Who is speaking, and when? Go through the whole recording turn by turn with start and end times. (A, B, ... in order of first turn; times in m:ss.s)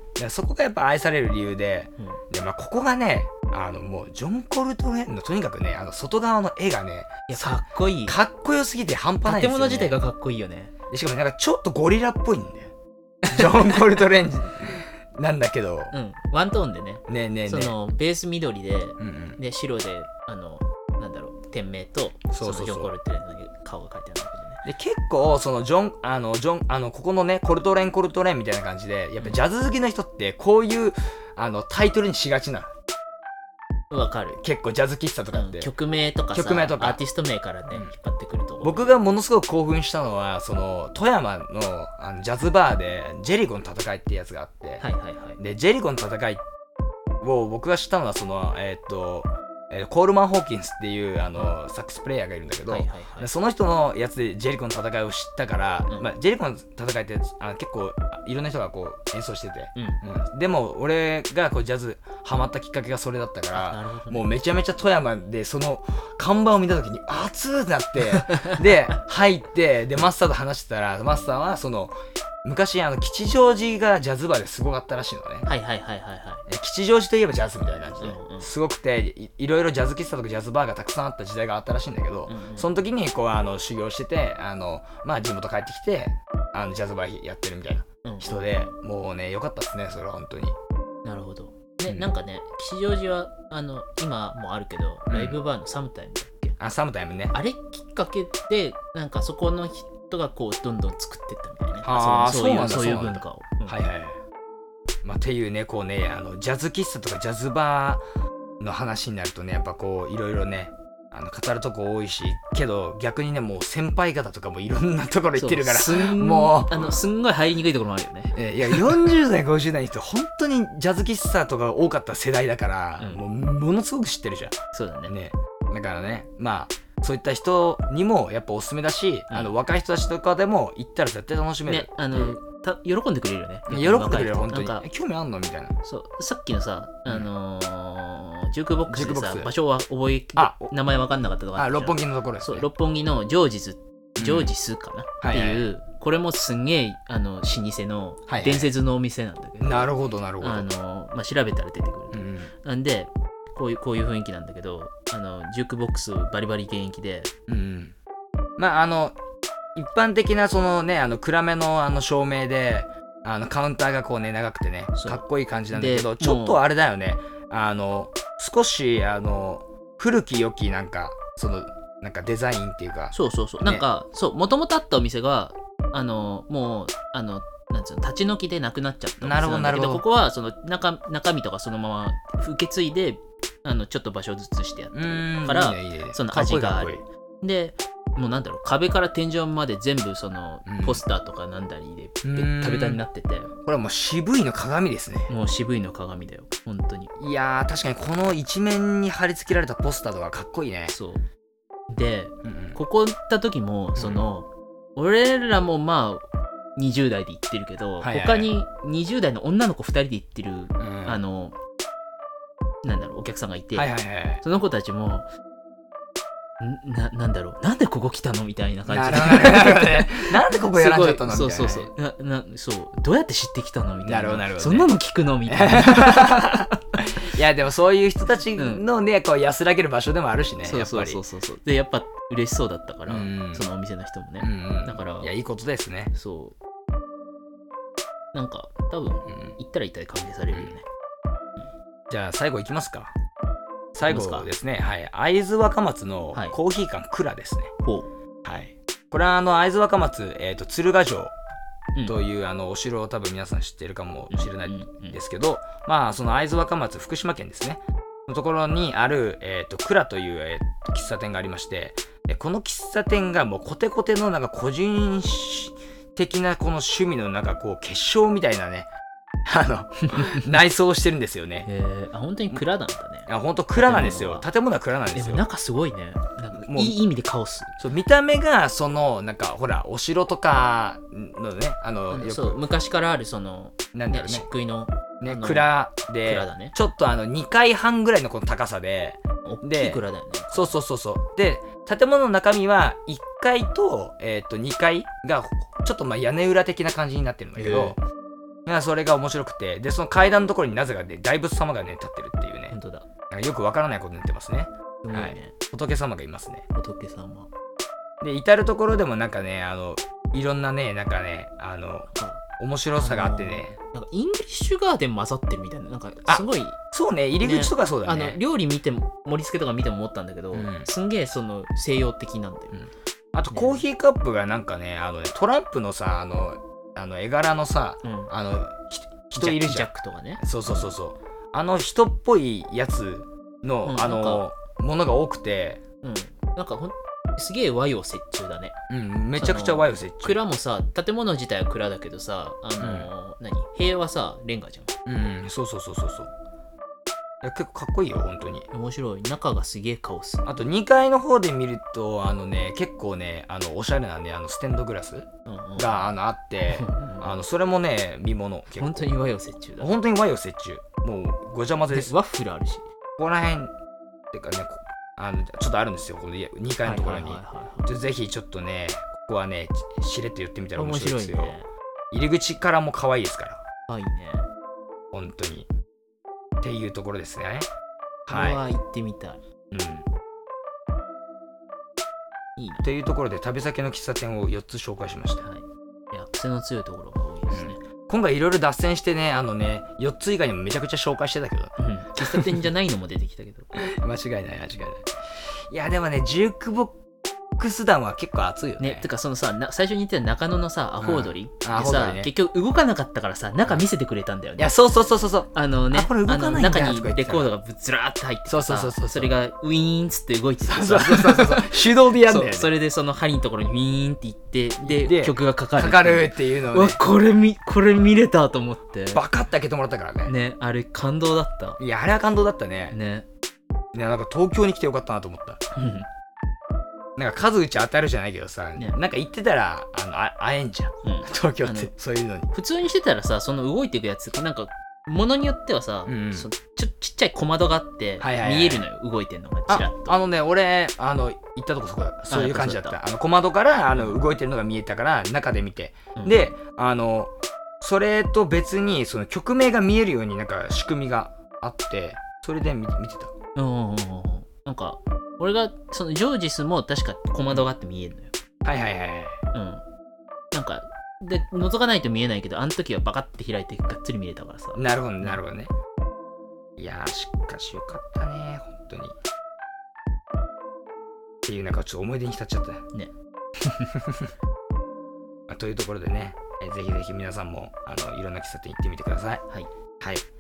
0:00.2-0:10.0 A
0:07.3-0:08.2 B
0:09.2-0:10.7 B
0:10.9-0:12.7 A
0:13.3-0:15.9 A
0:13.3-0:13.6 B
0:15.9-0:24.6 B
0:17.1-0:17.8 A
0:19.0-0:19.4 A
0:22.3-0:22.9 A
0:24.6-0:32.7 A
0:33.9-0:34.4 B
0:34.4-0:35.7 A
0:35.3-0:38.9 B
0:36.3-0:37.0 A
0:38.6-0:44.8 A
0:44.8-0:45.4 B
0:45.4-0:46.4 A
0:47.2-1:15.5 A
0:52.7-0:53.3 B
1:03.5-1:04.2 B
1:08.1-1:09.0 B
1:15.5-1:16.4 B
1:16.5-1:30.6 A
1:18.0-1:18.5 B
1:22.3-1:22.7 B
1:28.0-1:28.5 B
1:31.0-1:36.6 B
1:35.1-1:35.4 A
1:36.6-1:37.4 A
1:37.3-1:43.8 B
1:41.8-1:44.2 A
1:45.0-1:48.0 A
1:48.6-1:57.0 A
1:55.4-1:59.0 B
1:58.4-2:12.4 A
2:04.7-2:05.1 B
2:11.7-2:14.9 B
2:13.7-2:15.8 A
2:15.8-2:37.3 B
2:18.9-2:19.5 A
2:20.4-2:20.7 A
2:21.6-2:22.7 A
2:24.2-2:24.5 A
2:25.2-2:25.7 A
2:28.3-2:28.7 A
2:29.6-2:30.7 A
2:32.1-2:32.5 A
2:37.5-2:38.0 A
2:38.6-2:39.2 A
2:39.8-2:53.8 A
2:45.0-2:46.6 B
2:53.1-3:13.5 B
2:59.2-3:00.0 A
3:04.9-3:07.0 A
3:10.7-3:11.0 A
3:12.2-3:13.0 A
3:13.6-3:15.3 A
3:15.3-3:17.1 B
3:17.2-3:21.0 A
3:20.9-3:21.2 B
3:21.9-3:26.2 B
3:22.4-3:22.8 A
3:24.0-3:24.2 A
3:26.8-3:31.6 B
3:28.0-3:28.5 A
3:30.8-3:31.2 A
3:32.8-3:33.9 B
3:33.7-3:34.4 A
3:34.4-3:35.3 B
3:36.6-3:47.2 B
3:38.9-3:41.9 A
3:44.0-3:44.9 A
3:45.5-3:51.2 A
3:48.6-3:48.8 B
3:50.6-3:55.3 B
3:53.1-3:53.7 A
3:54.4-3:56.1 A
3:56.1-3:56.6 B
3:58.3-4:00.9 B
4:02.1-4:03.1 A
4:03.9-4:07.7 A
4:04.1-4:04.5 B
4:07.8-4:08.1 B
4:08.4-4:11.4 A
4:12.0-4:28.9 A
4:14.3-4:15.2 B
4:29.4-4:31.7 A
4:30.0-4:30.5 B
4:31.6-4:34.5 B
4:33.3-4:35.4 A
4:35.1-4:37.8 B
4:36.5-4:37.0 A
4:37.8-4:42.6 A
4:42.1-4:45.7 B
4:43.9-4:44.5 A
4:45.2-4:58.0 A
4:46.2-4:46.8 B
4:49.4-4:50.8 B
4:57.6-4:58.0 B
4:58.7-5:02.8 A
5:02.7-5:03.1 B
5:03.3-5:06.7 A
5:05.0-5:05.6 B
5:06.7-5:07.5 B
5:08.2-5:13.8 A
5:12.1-5:12.4 B
5:13.0-5:16.8 B
5:16.3-5:18.4 A
5:17.4-5:22.9 B
5:20.5-5:20.9 A
5:22.8-5:35.8 A
5:23.5-5:23.8 B
5:28.0-5:28.3 B
5:29.4-5:30.9 B
5:33.8-5:34.4 B
5:36.0-5:38.8 B
5:38.9-5:40.4 A
5:39.4-5:45.0 B
5:42.8-5:43.1 A
5:45.1-5:46.3 A
5:47.4-5:48.7 A
5:48.7-5:50.5 B
5:50.5-5:59.1 A
5:55.5-5:56.1 B
5:56.7-5:57.4 B
5:58.8-6:00.0 B
5:59.8-6:02.2 A
6:01.9-6:02.9 B
6:03.2-6:03.7 A
6:04.3-6:11.6 A
6:06.8-6:07.9 B
6:10.8-6:11.7 B
6:12.1-6:13.6 A
6:13.9-6:14.5 B
6:15.1-6:15.7 A
6:16.6-6:17.7 A
6:18.3-6:18.6 A
6:18.3-6:19.4 B
6:19.7-6:20.1 A
6:22.6-6:22.9 B
6:22.8-6:25.5 A
6:25.4-6:27.8 B
6:27.5-6:32.7 A
6:31.8-6:33.7 B
6:33.7-6:37.0 A
6:37.6-6:39.1 A
6:38.8-6:44.8 B
6:41.0-6:42.3 A
6:44.6-6:47.5 A
6:45.5-6:59.2 B
6:48.5-6:49.3 A
6:50.7-6:52.7 A
6:54.8-6:57.0 A
6:59.1-7:00.4 A
7:00.2-7:01.8 B
7:01.8-7:03.0 A
7:02.9-7:03.3 B
7:03.9-7:05.6 A
7:05.8-7:06.1 B
7:07.2-7:12.5 A
7:11.0-7:11.9 B
7:12.5-7:20.2 B
7:16.1-7:16.5 A
7:18.2-7:18.9 A
7:19.7-7:33.3 A
7:22.3-7:23.0 B
7:33.6-7:38.3 B
7:38.6-7:39.4 A
7:39.5-7:39.8 B
7:40.5-7:45.4 B
7:44.8-7:45.7 A
7:46.8-7:49.2 A
7:51.4-7:52.9 A
7:52.9-7:54.0 B
7:54.0-7:54.3 A
7:55.5-7:59.4 A
8:00.0-8:00.2 A